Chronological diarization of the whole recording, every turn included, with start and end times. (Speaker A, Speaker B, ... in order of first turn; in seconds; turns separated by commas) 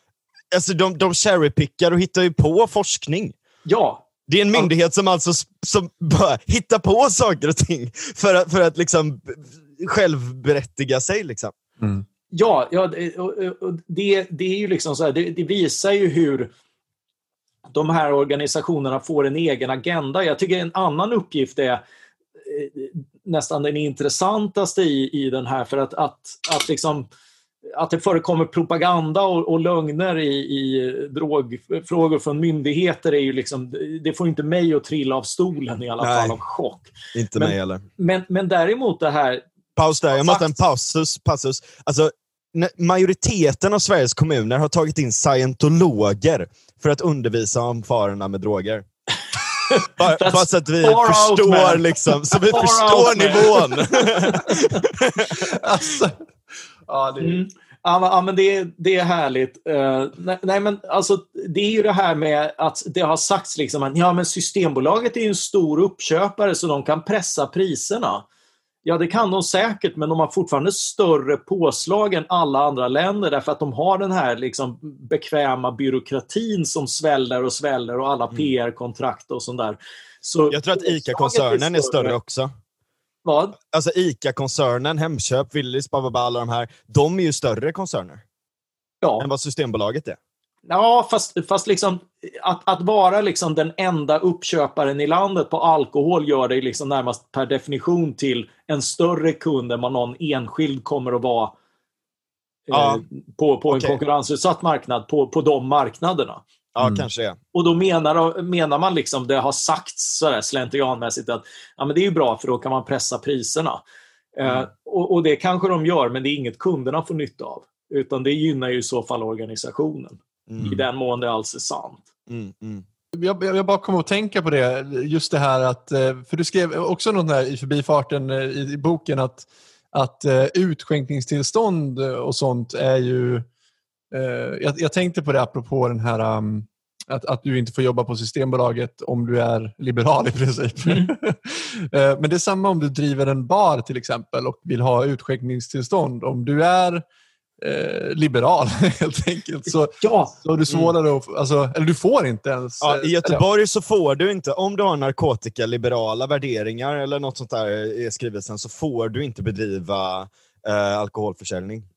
Speaker A: 0.5-3.4, Speaker B: 3.6-4.7, Speaker A: 4.3-11.6, Speaker B: 12.3-16.5, Speaker B: 17.7-21.8, Speaker B: 22.4-27.1, Speaker B: 27.8-39.5, Speaker A: 36.0-36.4, Speaker A: 37.1-37.8, Speaker A: 39.8-48.9, Speaker B: 40.1-40.6, Speaker B: 49.7-54.8, Speaker A: 50.0-55.5, Speaker C: 55.4-56.2, Speaker C: 56.9-57.4, Speaker B: 57.2-68.3, Speaker B: 68.8-82.2, Speaker A: 80.5-82.5, Speaker B: 83.2-83.6, Speaker A: 83.7-88.2, Speaker A: 89.2-90.2, Speaker B: 90.7-101.5, Speaker B: 102.7-106.4, Speaker A: 102.7-103.0, Speaker A: 103.7-104.0, Speaker A: 106.8-107.4, Speaker C: 106.8-107.1, Speaker B: 107.5-113.8, Speaker B: 114.4-122.0, Speaker A: 120.5-120.7, Speaker A: 122.3-122.8, Speaker C: 123.1-133.5, Speaker C: 134.1-147.1, Speaker B: 140.8-141.1, Speaker C: 147.6-153.4, Speaker B: 149.7-150.3, Speaker A: 152.8-161.9